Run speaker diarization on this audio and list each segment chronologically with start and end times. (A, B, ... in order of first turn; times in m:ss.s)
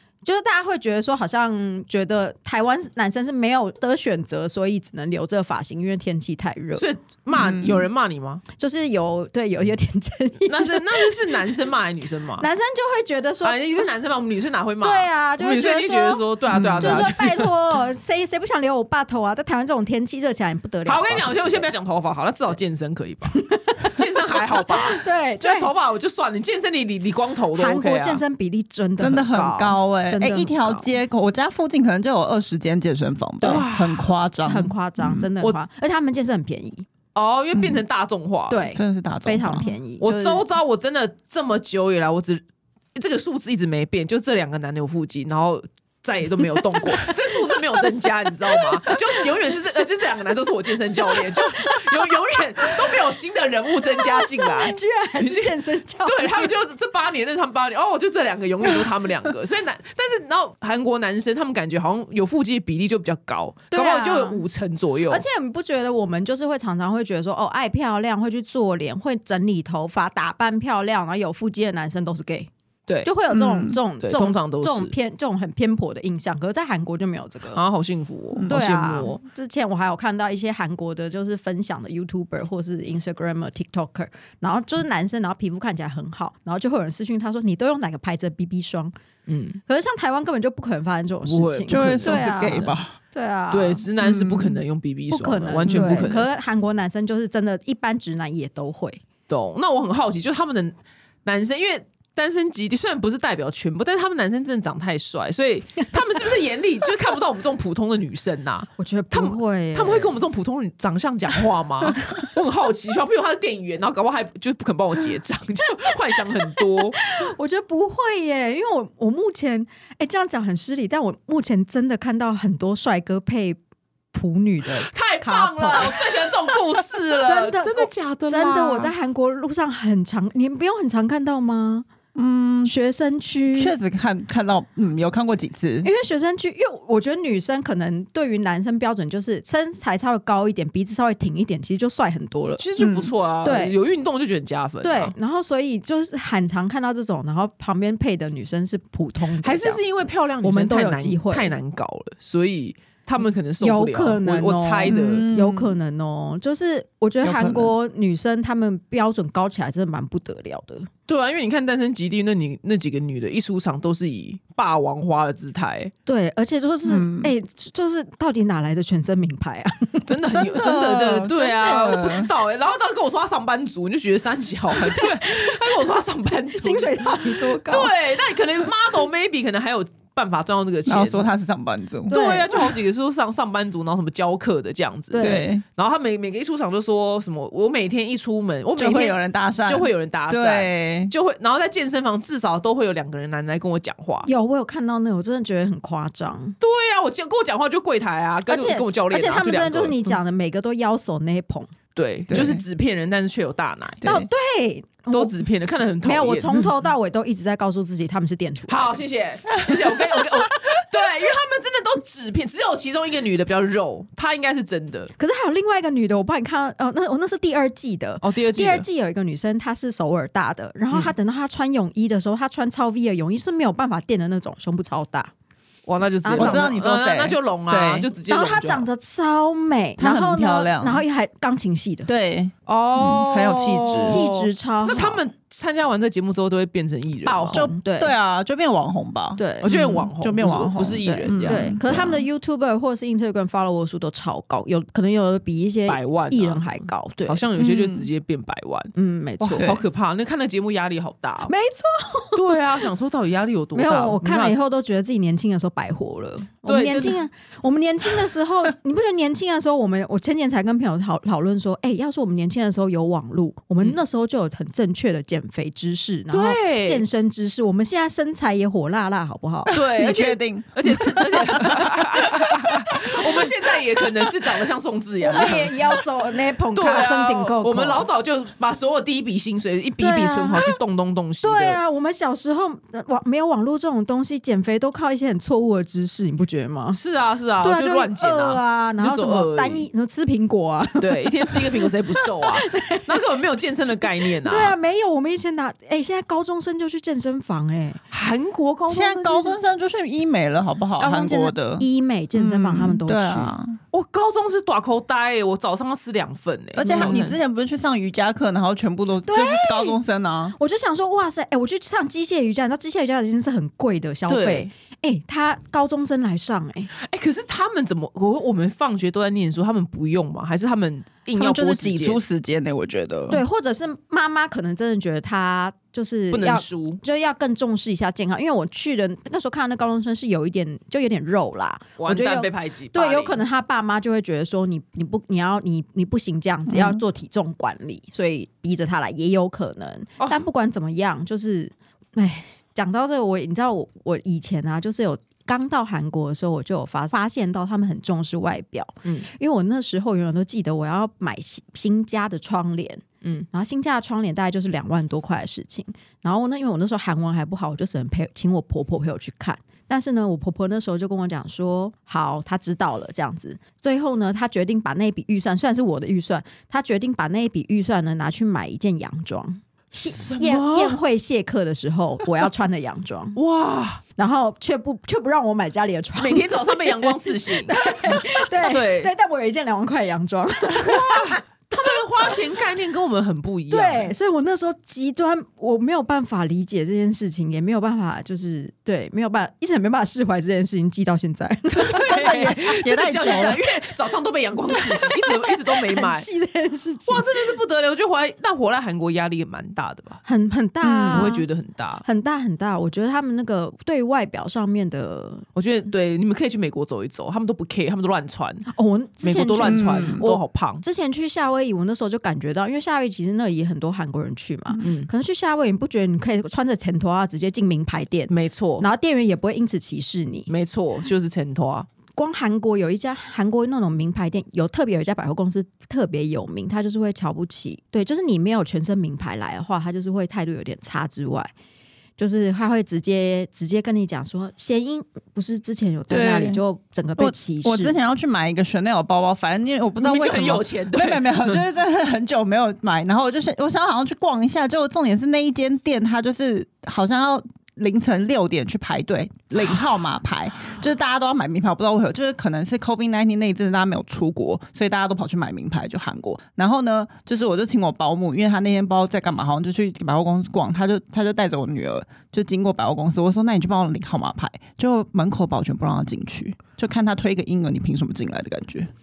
0:00.2-0:06.9 A
0:06.8-0:08.4 B
0:07.3-0:07.8 C
0:08.6-0:11.5 A
0:10.4-0:12.5 B
0:12.4-0:13.8 A
0:13.4-0:17.3 B
0:14.8-0:16.2 A
0:16.5-0:17.4 C
0:16.8-0:21.7 A
0:20.8-0:28.2 B
0:23.3-0:25.7 A
0:27.5-0:30.9 A
0:29.0-0:35.3 C
0:33.4-0:33.7 A
0:33.4-0:34.1 B
0:34.4-0:36.8 A
0:37.1-0:38.7 B
0:37.5-0:37.8 C
0:38.5-0:40.4 A
0:38.7-0:39.7 C
0:40.0-0:42.4 B
0:42.9-1:05.2 B
0:51.2-0:52.1 A
0:53.9-0:56.5 A
1:03.7-1:04.4 A
1:05.1-1:12.5 A
1:13.0-1:17.6 A
1:13.3-1:13.8 C
1:14.0-1:14.9 B
1:17.5-1:19.2 B
1:18.5-1:28.9 A
1:29.3-1:29.6 B
1:29.7-1:33.8 A
1:31.2-1:32.7 B
1:31.7-1:32.9 C
1:33.5-1:36.3 B
1:34.0-1:34.6 C
1:35.1-1:39.0 A
1:35.6-1:36.1 C
1:39.3-1:57.1 B
1:48.8-1:50.2 A
1:57.0-2:03.6 A
2:04.1-2:06.6 A
2:04.9-2:08.9 B
2:07.1-2:11.9 A
2:12.1-2:12.7 C
2:12.6-2:13.7 A
2:13.5-2:15.9 C
2:15.8-2:22.6 A
2:22.6-2:25.1 B
2:22.8-2:23.1 C
2:23.4-2:23.7 A
2:24.8-2:29.8 A
2:29.4-2:35.2 B
2:30.4-2:31.6 A
2:33.6-2:40.9 A
2:34.9-2:35.8 C
2:37.2-2:37.7 C
2:41.1-2:45.9 B
2:46.0-2:50.1 A
2:46.8-2:47.3 C
2:50.1-3:01.3 B
2:50.3-2:52.3 C
2:51.3-2:52.0 A
2:54.9-2:55.7 A
2:56.6-2:57.9 A
3:00.9-3:02.2 C
3:02.1-3:14.3 B
3:02.1-3:02.7 A
3:05.1-3:05.5 A
3:05.2-3:05.6 C
3:08.8-3:11.1 C
3:14.2-3:16.6 A
3:16.6-3:20.0 B
3:18.5-3:21.7 A
3:21.9-3:24.2 B
3:22.3-3:22.6 C
3:24.0-3:25.4 A
3:25.1-3:26.7 B
3:26.0-3:29.0 A
3:28.7-3:35.1 B
3:35.2-3:45.3 A
3:38.2-3:38.8 B
3:45.8-3:48.9 B
3:46.2-3:46.9 A
3:46.3-3:48.1 C
3:48.3-3:52.1 A
3:50.0-3:51.0 C
3:52.0-3:54.2 C
3:52.6-3:57.6 B
3:53.9-3:55.2 A
3:57.2-4:02.2 C
3:57.5-3:58.1 A
3:59.4-4:00.0 A
3:59.6-4:02.0 B
4:01.0-4:07.4 A
4:05.9-4:11.5 B
4:07.6-4:08.1 C
4:09.0-4:09.7 A
4:09.5-4:09.8 C
4:11.5-4:12.6 A
4:12.3-4:14.6 B
4:13.7-4:29.8 A
4:16.6-4:17.2 B
4:26.3-4:27.0 B
4:29.7-4:33.2 C
4:29.7-4:36.0 B
4:35.2-4:38.1 A
4:35.3-4:35.6 C
4:36.7-4:41.8 B
4:40.0-4:40.8 A
4:41.4-4:47.0 A
4:46.9-4:49.9 B
4:47.6-4:53.2 A
4:51.0-4:54.8 B
4:54.3-4:58.0 A
4:58.1-4:59.6 B
4:58.9-5:03.8 C
5:01.0-5:03.5 A
5:03.9-5:07.4 B
5:06.8-5:10.5 C
5:06.8-5:07.3 A
5:09.2-5:10.0 A
5:10.6-5:16.9 A
5:14.3-5:14.7 B
5:16.9-5:22.2 B
5:21.4-5:23.4 C
5:23.3-6:13.4 A
5:26.3-5:27.0 B
5:32.0-5:33.4 B
5:36.7-5:37.0 C
5:40.2-5:40.4 B
6:10.0-6:11.0 B
6:13.4-6:14.0 B
6:14.2-6:22.3 A
6:16.2-6:19.1 B
6:20.8-6:24.1 B
6:23.7-6:33.6 A
6:31.8-6:36.3 B
6:31.9-6:33.6 C
6:34.7-6:37.5 A
6:37.0-6:40.2 B
6:40.2-6:41.5 A
6:40.8-6:41.2 C
6:40.9-6:42.0 B
6:42.0-6:45.4 A
6:45.5-6:48.7 B
6:48.7-7:00.5 A
6:49.2-6:50.8 B
6:49.6-6:50.2 C
6:54.8-6:55.1 B
6:58.3-6:58.9 B
7:00.5-7:01.9 B
7:02.1-7:11.5 A
7:12.2-7:18.0 A
7:16.1-7:16.6 C
7:17.2-7:48.9 C
7:20.0-7:21.6 B